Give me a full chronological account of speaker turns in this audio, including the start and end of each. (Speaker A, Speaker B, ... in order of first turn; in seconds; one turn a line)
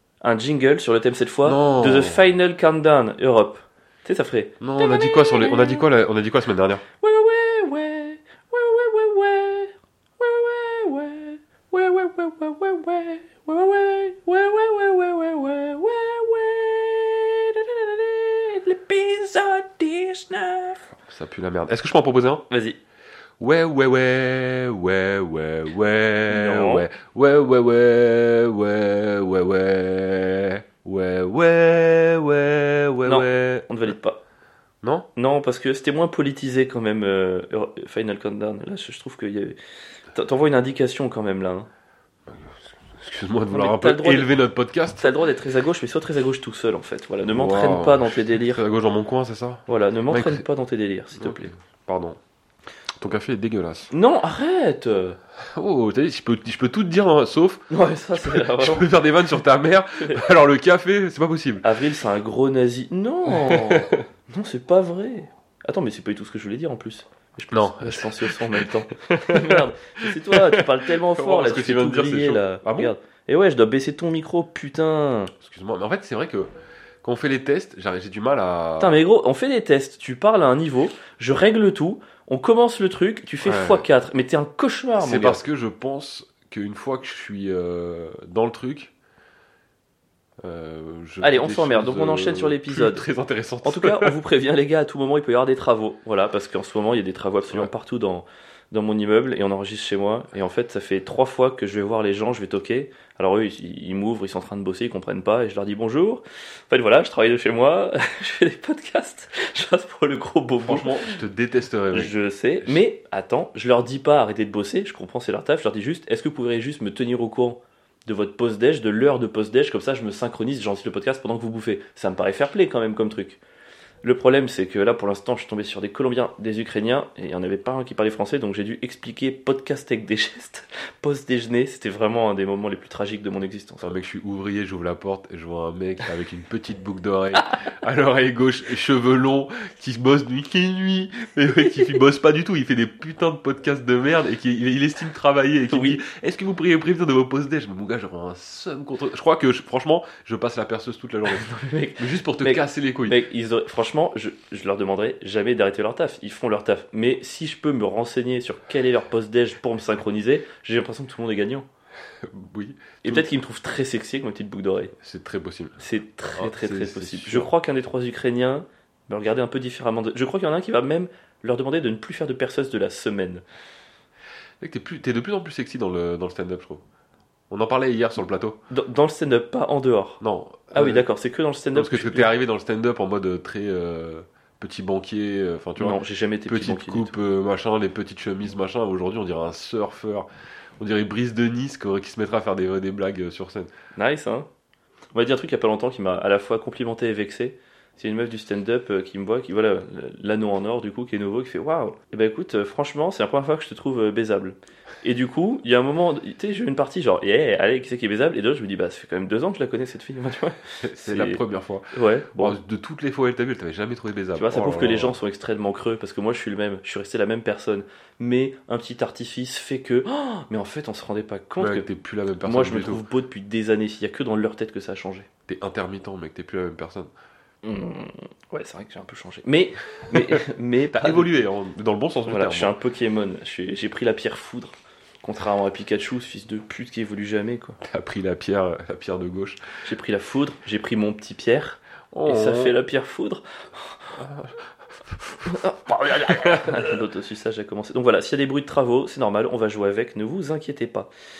Speaker A: 0.2-5.8
Speaker B: 1.4-2.2
Speaker B: 4.6-6.8
Speaker A: 7.0-20.9
Speaker B: 21.1-22.4
Speaker A: 22.5-22.8
Speaker B: 23.4-33.7
Speaker A: 26.3-26.9
Speaker A: 33.0-34.2
Speaker B: 34.8-35.1
Speaker A: 35.1-39.6
Speaker A: 40.1-41.7
Speaker B: 42.3-45.0
Speaker A: 43.5-44.3
Speaker A: 45.0-48.6
Speaker B: 47.3-50.4
Speaker A: 49.7-51.5
Speaker B: 51.2-52.2
Speaker B: 53.0-53.9
Speaker A: 53.9-55.2
Speaker B: 55.4-61.6
Speaker A: 57.7-58.9
Speaker A: 61.6-75.3
Speaker B: 63.2-64.0
Speaker B: 67.5-72.9
Speaker B: 75.4-76.5
Speaker B: 77.0-79.0
Speaker A: 78.8-85.4
Speaker B: 83.4-83.8
Speaker B: 85.0-88.9
Speaker B: 90.4-94.2
Speaker A: 91.2-93.0
Speaker A: 93.6-111.1
Speaker B: 110.6-112.8
Speaker A: 111.9-123.4
Speaker A: 124.0-133.9
Speaker B: 133.8-151.4
Speaker A: 145.7-146.0
Speaker A: 151.3-161.7
Speaker B: 152.0-153.2
Speaker B: 162.2-163.3
Speaker A: 163.0-164.9
Speaker B: 165.0-165.8
Speaker A: 165.8-173.4
Speaker B: 166.3-167.5
Speaker B: 174.6-176.8
Speaker B: 177.5-178.6
Speaker A: 178.7-180.2
Speaker B: 180.2-181.0
Speaker A: 180.7-182.3
Speaker B: 181.7-190.3
Speaker A: 185.8-187.2
Speaker B: 190.8-193.7
Speaker A: 193.9-194.5
Speaker A: 195.1-211.4
Speaker B: 210.8-215.2
Speaker A: 211.9-212.6
Speaker A: 214.3-221.9
Speaker B: 221.6-223.0
Speaker A: 222.4-225.3
Speaker B: 225.5-227.1
Speaker A: 227.6-231.3
Speaker B: 230.9-232.7
Speaker A: 232.3-237.8
Speaker B: 237.8-239.6
Speaker A: 239.8-244.1
Speaker B: 242.1-242.8
Speaker B: 244.2-247.0
Speaker A: 245.4-251.1